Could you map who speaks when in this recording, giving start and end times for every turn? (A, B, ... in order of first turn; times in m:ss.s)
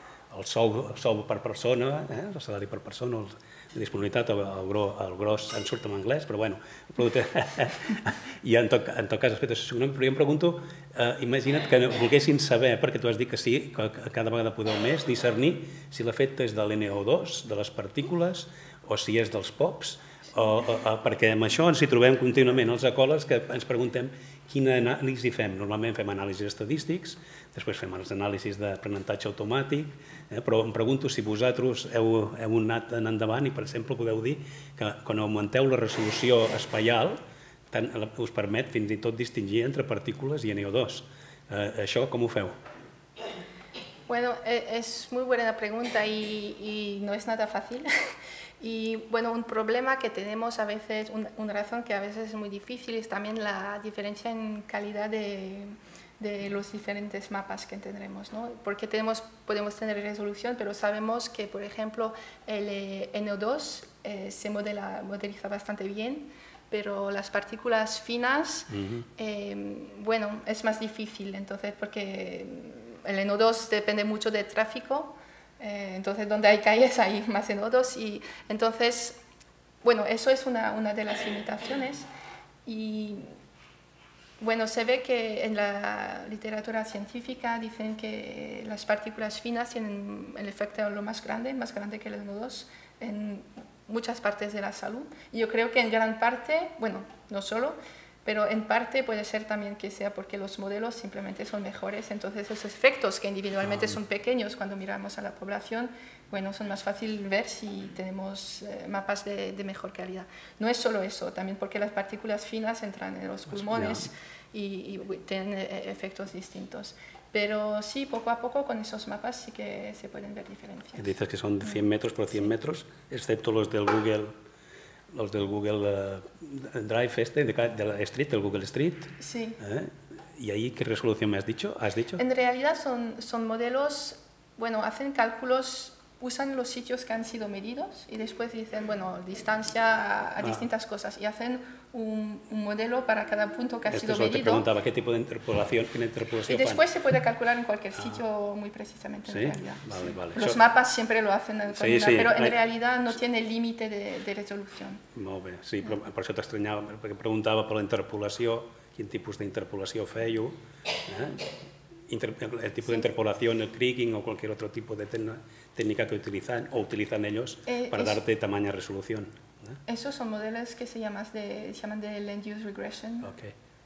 0:00.3-0:42.6 A
0:44.1-0:47.9 B
0:48.6-1:19.2 B
1:08.7-1:09.1 A
1:19.8-1:22.1 B
1:22.7-1:23.3 B
1:24.4-2:01.1 B
1:53.7-1:54.1 A
2:01.0-2:04.3 A
2:05.1-2:12.2 A
2:09.2-2:09.6 B
2:12.2-2:24.7 B
2:23.9-2:26.8 A
2:26.5-2:35.0 B
2:28.0-2:28.2 A
2:29.3-2:30.6 A
2:31.7-2:32.6 A
2:35.2-2:41.4 A
2:42.1-2:49.8 A
2:47.7-2:48.2 B
2:49.9-2:53.3 B
2:53.2-2:53.5 A